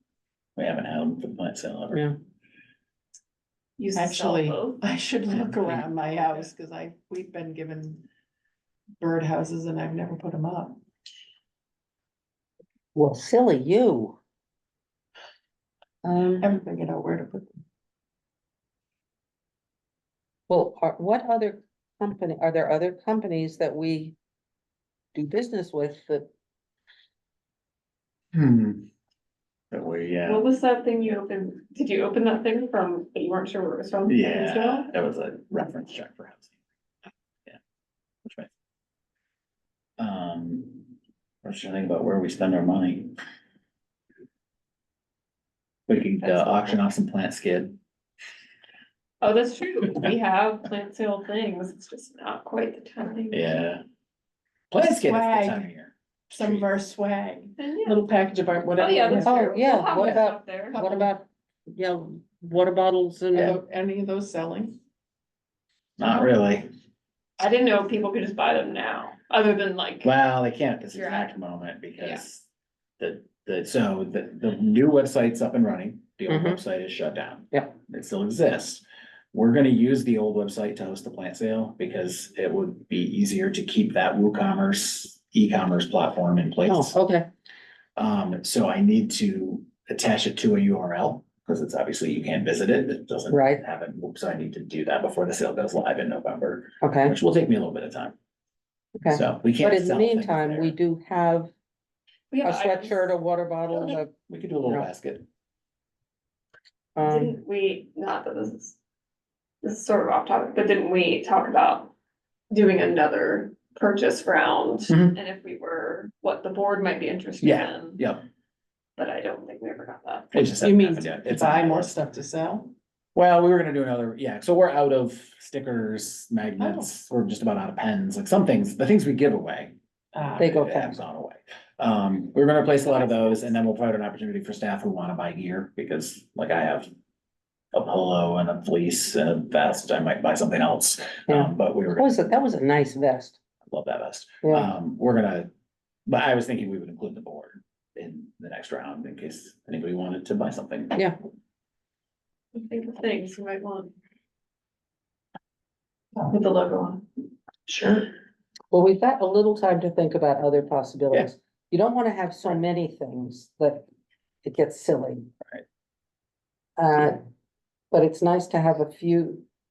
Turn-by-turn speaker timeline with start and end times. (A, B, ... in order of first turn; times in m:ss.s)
0:00.6-0:02.0 A
0:01.9-0:02.2 B
0:03.8-0:04.8 C
0:03.9-0:08.0 D
0:05.3-0:05.9 A
0:09.0-0:10.8 D
0:12.9-0:14.2 B
0:16.0-0:16.6 B
0:16.4-0:17.6 D
0:20.5-0:24.2 B
0:25.1-0:26.3 B
0:28.3-0:28.9 A
0:29.7-0:30.5 A
0:30.2-0:34.9 C
0:34.1-0:36.5 A
0:38.2-0:38.5 A
0:40.0-0:40.9 A
0:41.4-0:43.2 A
0:45.9-0:47.8 A
0:46.2-0:46.8 C
0:49.2-0:53.5 C
0:53.3-0:53.8 A
0:54.7-0:56.6 A
0:54.8-0:55.7 D
0:56.3-0:59.4 D
0:57.6-0:58.0 C
0:58.8-1:00.9 C
0:59.2-1:03.6 B
1:00.7-1:01.1 D
1:03.3-1:04.8 D
1:06.0-1:06.7 A
1:07.4-1:10.1 C
1:10.0-1:12.5 A
1:11.0-1:11.3 C
1:13.0-1:26.9 A
1:16.3-1:16.6 B
1:26.7-1:27.3 B
1:28.0-1:38.2 A
1:33.3-1:33.6 B
1:36.8-1:37.2 B
1:39.0-1:41.5 B
1:39.0-1:40.8 A
1:42.3-1:43.1 C
1:42.4-1:44.1 B
1:43.9-1:45.3 A
1:47.0-1:47.3 B
1:47.0-1:48.8 C
1:49.6-1:51.9 C
1:52.5-1:58.0 C
1:54.9-1:55.1 A
1:57.4-1:58.2 A
1:59.0-2:00.4 C
2:00.3-2:01.9 A
2:00.6-2:02.7 D
2:03.1-2:09.8 A
2:06.6-2:06.9 D
2:10.1-2:10.4 D
2:10.4-2:16.9 A
2:10.4-2:11.0 B
2:17.7-2:22.1 A
2:21.3-2:23.4 B
2:23.6-2:25.5 A
2:24.4-2:24.7 B
2:26.1-2:31.0 A
2:32.5-2:33.9 C
2:36.2-2:37.0 C
2:37.7-2:38.1 C
2:38.7-2:43.9 B
2:44.4-2:45.3 B
2:46.8-2:47.2 B
2:47.9-2:49.4 B